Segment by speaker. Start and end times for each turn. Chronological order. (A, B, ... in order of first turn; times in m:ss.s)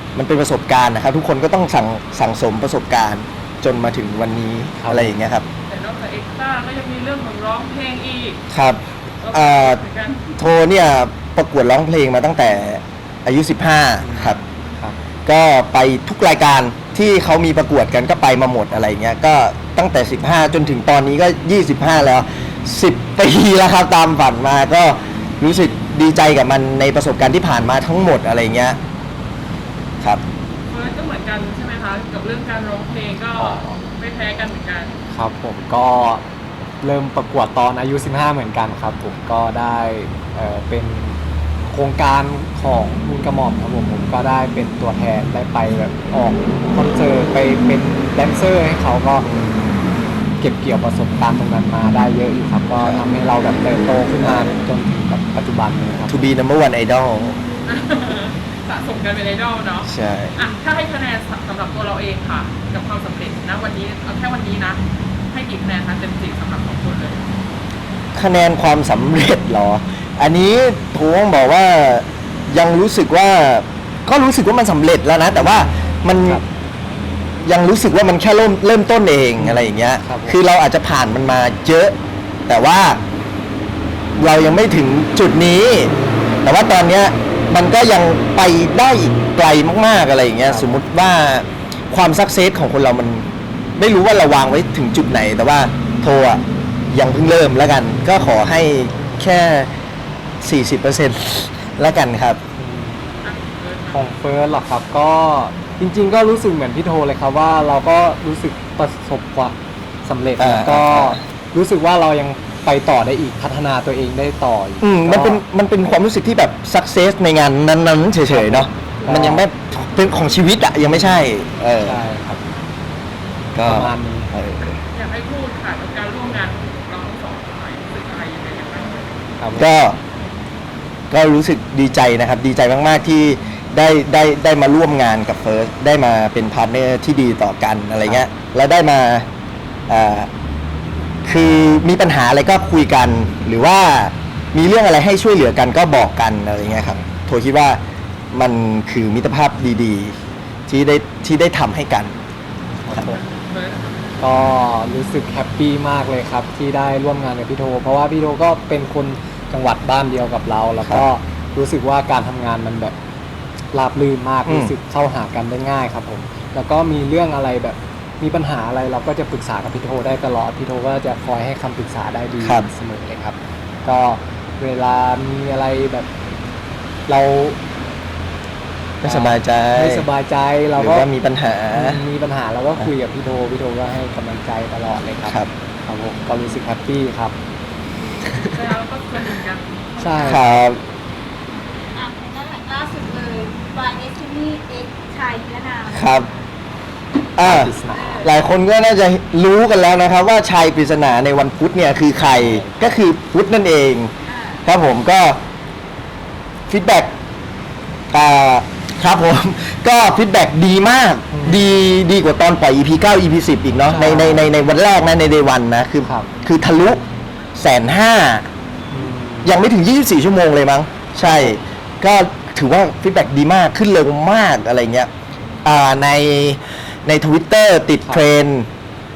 0:00.2-0:05.5 A
0:04.8-0:05.2 B
0:05.7-0:08.4 C
0:08.5-0:09.8 A
0:09.2-0:10.4 C
0:10.4-0:14.4 A
0:14.0-0:15.0 B
0:15.3-0:28.8 A
0:30.7-0:34.9 C
0:33.4-0:33.8 B
0:35.1-0:36.2 B
0:36.8-0:49.3 B
0:49.2-0:49.7 A
0:50.4-0:56.3 B
0:52.8-0:53.0 A
0:54.2-0:54.5 A
0:56.0-0:57.4 A
0:57.7-1:07.2 C
0:59.8-1:00.4 A
1:08.1-1:16.4 A
1:16.2-1:16.5 B
1:17.4-1:22.0 A
1:19.4-1:20.4 B
1:22.5-1:23.0 A
1:24.2-1:25.9 A
1:25.9-1:26.4 B
1:26.4-1:39.7 A
1:30.5-1:30.8 B
1:40.4-1:42.4 A
1:42.6-1:43.1 B
1:43.2-1:44.1 C
1:43.9-1:55.4 B
1:50.4-1:51.2 A
1:54.8-2:02.0 A
1:58.3-1:59.5 B
2:00.9-2:01.2 B
2:01.8-2:02.4 B
2:03.6-2:04.8 A
2:03.6-2:04.3 B
2:04.9-2:09.2 C
2:09.4-2:09.7 B
2:09.6-2:10.0 A
2:11.1-2:19.3 A
2:19.9-2:20.3 A
2:21.2-2:27.8 A
2:28.3-2:30.2 A
2:30.7-2:32.2 A
2:32.8-2:33.2 B
2:33.2-2:34.1 C
2:34.2-2:43.0 B
2:43.7-2:56.1 B
2:44.5-2:44.7 A
2:52.4-2:52.7 A
2:57.1-2:57.6 B
2:59.0-3:00.1 A
2:59.0-3:01.1 B
3:00.8-3:02.0 A
3:01.7-3:07.4 B
3:05.3-3:05.5 A
3:08.4-3:10.5 C
3:10.0-3:10.6 B
3:10.2-3:10.8 A
3:11.9-3:16.3 D
3:15.9-3:16.3 A
3:17.4-3:24.1 A
3:17.4-3:18.2 B
3:17.9-3:18.3 D
3:22.2-3:23.0 B
3:24.3-3:24.6 D
3:24.6-3:25.4 A
3:26.7-3:27.2 A
3:28.1-3:37.0 A
3:31.3-3:31.6 B
3:33.9-3:34.5 B
3:36.0-3:36.3 B
3:37.6-3:38.5 A
3:38.9-3:39.6 B
3:39.4-3:45.1 A
3:41.2-3:41.6 B
3:45.6-3:48.7 A